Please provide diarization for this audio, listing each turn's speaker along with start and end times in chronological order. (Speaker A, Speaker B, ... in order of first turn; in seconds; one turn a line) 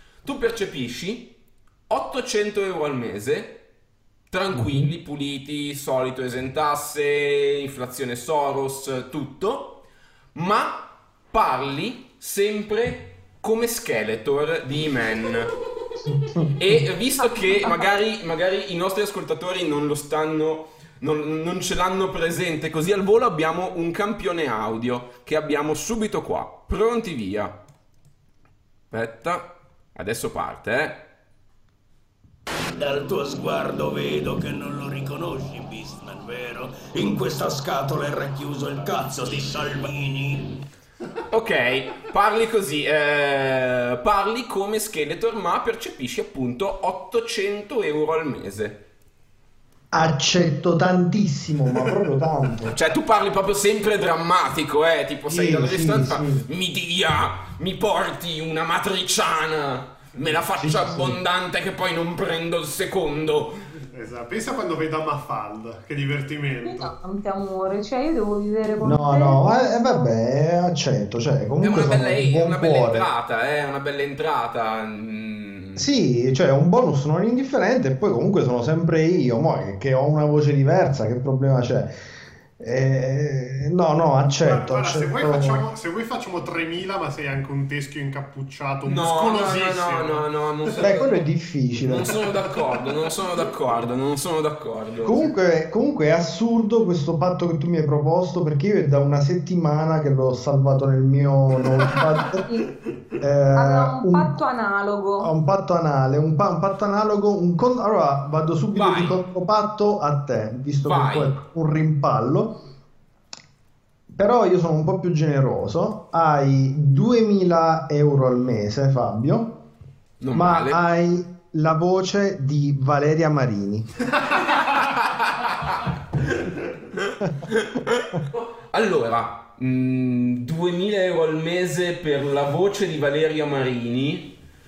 Speaker A: 0.2-1.4
Speaker A: 1.9-3.6
Speaker A: 4.3-9.8
Speaker B: 4.6-4.9
Speaker A: 10.3-15.6
Speaker B: 16.2-16.5
Speaker A: 16.6-27.5
Speaker A: 28.9-31.1
Speaker C: 32.8-40.6
Speaker A: 41.3-48.8
Speaker B: 49.9-52.8
Speaker D: 51.8-52.3
Speaker A: 52.7-63.6
Speaker B: 55.3-56.5
Speaker B: 60.6-61.2
Speaker D: 63.9-66.9
Speaker E: 66.6-70.1
Speaker B: 68.8-73.1
Speaker A: 71.6-75.9
Speaker B: 75.8-82.0
Speaker B: 82.6-85.6
Speaker D: 84.4-91.0
Speaker A: 88.8-91.1
Speaker B: 90.8-92.2
Speaker A: 91.8-95.3
Speaker D: 92.4-93.1
Speaker B: 95.0-102.5
Speaker B: 103.2-104.4
Speaker E: 103.5-105.3
Speaker B: 105.2-112.6
Speaker A: 108.8-109.2
Speaker A: 110.8-111.3
Speaker B: 114.2-119.6
Speaker A: 120.2-120.8
Speaker B: 120.3-123.9
Speaker A: 124.6-125.8
Speaker A: 127.0-134.3